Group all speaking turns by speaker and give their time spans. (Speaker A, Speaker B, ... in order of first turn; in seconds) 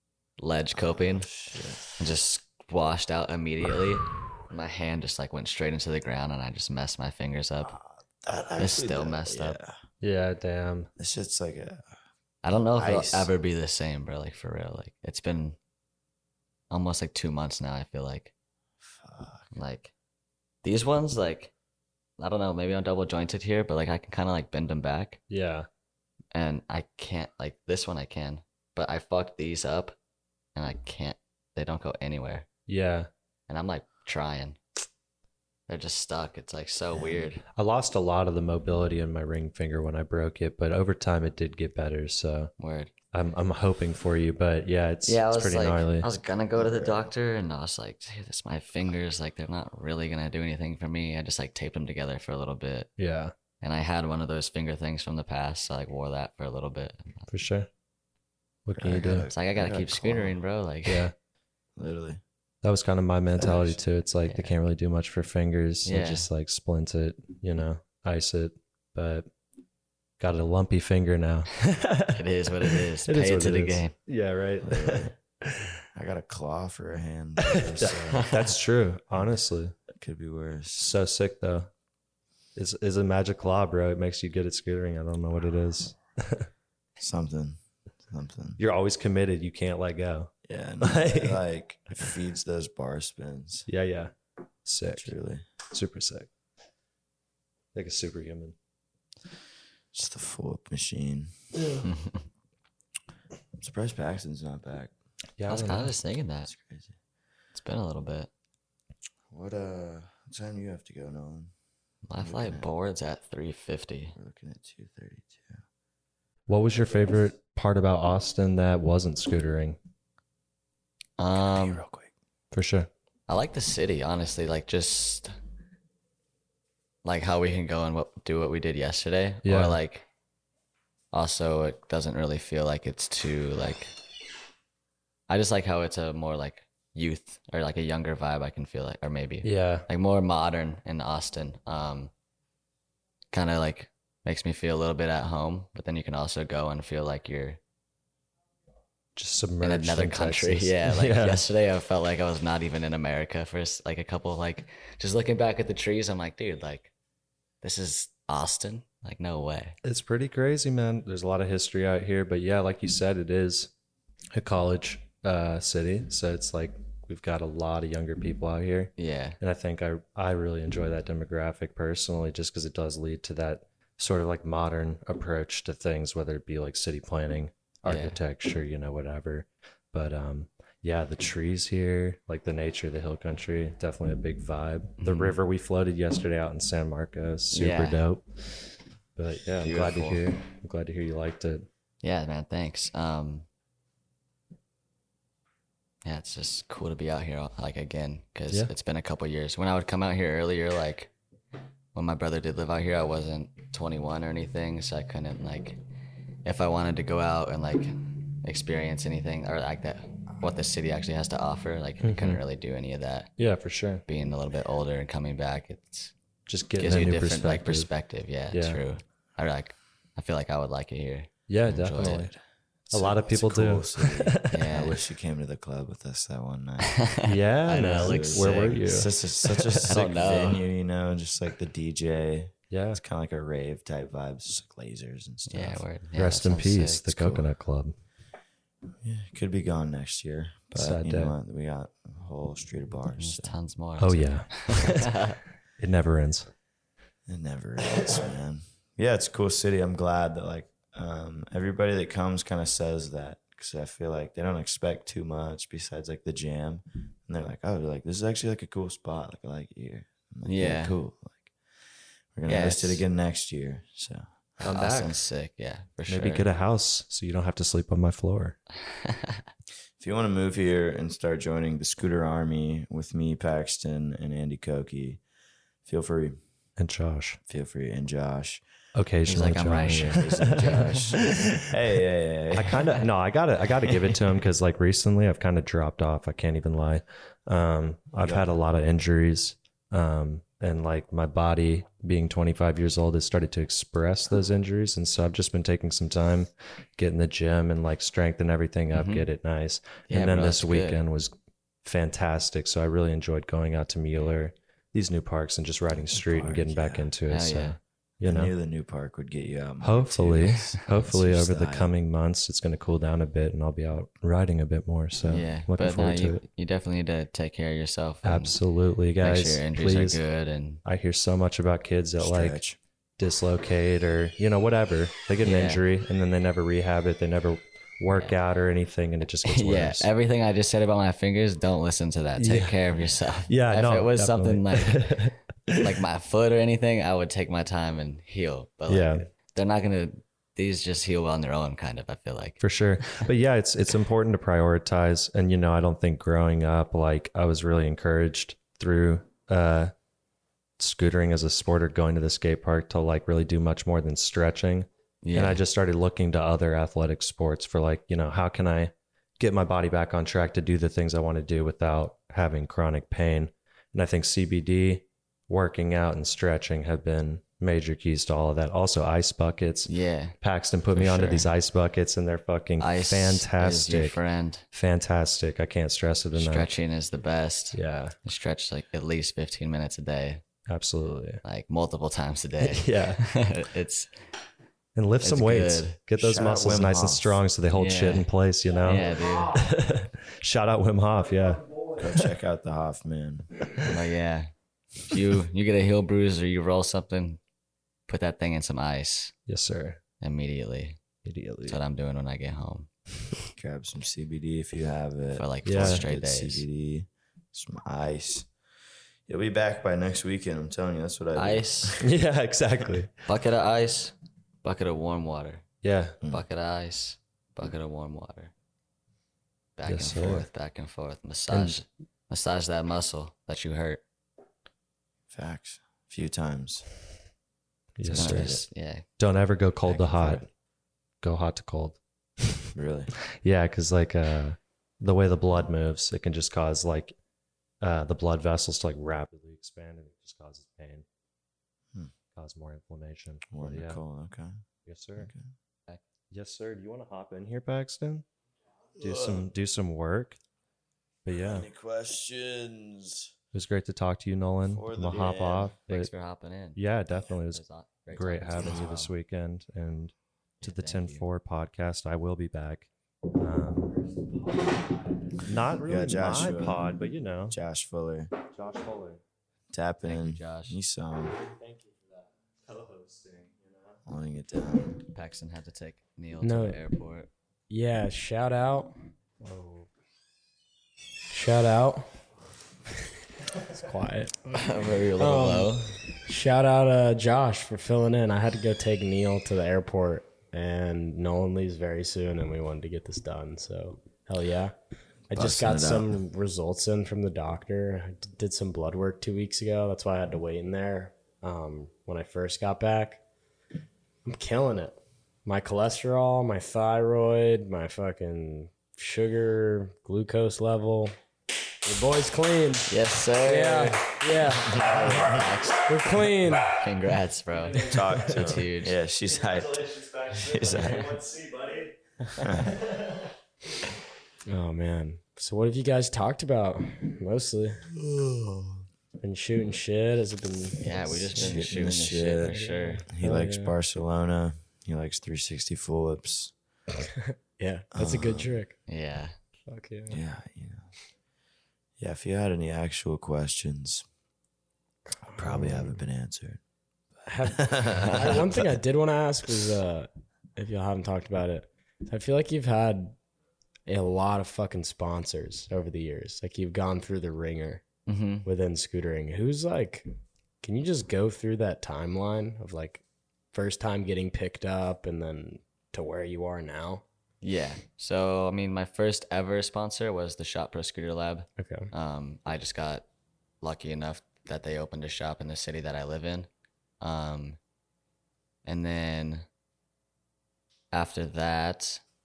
Speaker A: 0.4-1.3, 2.0-7.7, 8.6-9.6, 12.4-15.6, 16.7-18.3, 19.5-19.9, 20.6-21.5, 22.2-25.2, 26.3-30.0, 30.5-32.5, 33.5-34.6, 35.7-37.4, 42.6-42.9, 45.0-52.9, 53.6-57.3, 59.3-61.1, 64.2-64.5, 65.8-66.3, 72.1-73.9, 101.8-102.2, 105.5-106.5, 107.5-108.3, 112.0-114.2, 121.2-121.8, 123.3-125.3, 127.0-130.1, 131.1-133.9, 135.3-142.1, 143.3-147.6, 149.6-156.9, 157.6-159.8, 169.0-169.4, 177.8-178.2, 185.0-185.4, 187.5-188.0, 189.6-190.2, 192.0-193.5, 196.0-201.1, 201.9-205.8, 206.4-213.3, 214.1-216.1, 216.8-222.3, 224.5-225.0, 226.9-228.9, 229.9-230.6, 235.5-237.4, 243.2-245.4, 260.4-260.9, 262.4-263.0, 264.6-266.5, 268.8-269.4, 279.2-281.0, 298.9-299.3, 300.1-301.0, 307.3-307.8, 315.2-318.6, 319.2-320.8, 325.4-325.8, 329.4-343.3, 355.2-355.6, 369.9-370.4, 370.9-371.5, 372.8-374.6, 376.3-380.4, 381.4-384.1, 385.2-386.0, 387.7-388.3, 388.8-389.7, 393.9-394.5, 395.1-397.4, 398.1-399.3, 400.2-401.0, 401.7-402.9, 405.3-406.6, 411.3-411.9, 413.2-415.6, 416.2-418.5, 419.8-424.0, 428.1-429.0, 455.9-456.8, 457.5-459.1, 460.6-461.2, 470.0-470.8, 475.1-477.3, 484.5-486.0, 512.9-519.0, 530.8-533.0, 538.9-539.3, 548.0-548.4, 558.1-558.5, 567.4-573.0, 573.6-576.5, 577.0-577.6, 578.6-579.5, 580.9-582.0
Speaker B: 0.7-1.9, 7.6-9.8, 11.0-11.9, 12.7-13.3, 18.8-19.5, 46.5-47.1, 58.8-60.4, 61.8-62.2, 63.4-63.8, 74.6-75.1, 75.9-78.3, 79.9-80.9, 87.0-88.6, 90.5-93.7, 95.0-95.5, 99.9-101.8, 103.6-104.9, 106.5-106.9, 109.3-111.5, 112.2-112.7, 114.2-115.6, 121.6-122.1, 222.0-222.3, 222.9-227.0, 227.8-235.8, 239.0-243.6, 247.3-261.5, 262.3-264.3, 270.0-275.2, 275.8-276.4, 277.5-278.6, 280.1-283.0, 288.1-288.5, 305.9-307.1, 308.2-311.9, 322.2-322.8, 386.2-387.4, 392.0-393.8, 403.5-408.5, 409.3-412.1, 425.3-426.9, 428.0-428.6, 429.9-430.4, 432.7-433.1, 443.5-444.6, 445.2-445.5, 449.0-449.5, 451.3-453.3, 454.6-455.7, 465.8-466.9, 467.5-468.3, 469.7-471.4, 474.1-475.1, 495.3-496.1, 517.8-521.1, 522.4-522.8, 528.1-528.7, 531.3-536.5, 537.9-538.5, 540.1-540.9, 542.0-544.0, 545.3-546.6, 547.4-548.7
Speaker C: 10.0-10.9, 25.3-25.7, 32.7-33.1, 37.5-42.5, 43.1-46.1, 53.0-53.3, 57.3-57.7, 58.6-59.3, 60.9-61.1, 62.6-69.3, 70.2-75.8, 77.5-79.8, 80.8-81.7, 82.5-86.5, 88.6-91.4, 93.7-94.1, 94.6-95.1, 95.7-96.3, 97.7-98.5, 105.4-105.9, 116.5-119.8, 122.5-122.9, 129.4-129.8, 139.4-139.8, 149.2-151.4, 159.8-163.7, 164.3-191.7, 212.0-212.4, 213.4-214.0, 216.5-217.9, 218.5-218.8, 221.5-222.3, 222.9-224.9, 227.2-230.0, 232.7-233.0, 236.2-237.9, 240.7-241.3, 244.0-246.5, 264.6-265.2, 266.1-268.6, 276.8-277.4, 278.9-281.7, 282.5-301.3, 301.8-308.5, 309.8-316.4, 318.2-320.2, 320.8-322.6, 323.2-330.1, 332.4-332.8, 333.5-335.9, 338.9-339.2, 342.6-349.9, 350.8-374.2, 374.7-376.7, 377.7-378.1, 380.7-381.4, 382.6-383.2, 384.9-392.3, 399.5-400.0, 401.2-401.8, 405.6-406.0, 412.0-413.2, 415.8-416.2, 419.9-420.5, 421.5-421.8, 428.0-428.6, 429.2-430.5, 431.2-432.6, 433.4-437.1, 437.8-441.0, 442.3-444.0, 444.9-445.3, 446.3-448.2, 449.0-450.4, 451.2-451.7, 453.5-456.1, 456.8-467.5, 468.5-469.2, 471.4-471.9, 472.6-474.0, 519.4-521.9, 522.5-523.1
Speaker D: 476.4-476.8, 477.7-479.7, 481.3-482.1, 483.7-494.7, 495.3-503.2, 504.2-511.1, 511.8-516.9, 524.5-527.9, 529.2-531.6, 532.5-533.7, 537.2-538.8, 539.7-540.2, 545.1-546.0, 547.2-553.1, 553.9-557.8, 558.4-560.1, 560.6-563.0, 563.5-567.0, 571.6-571.9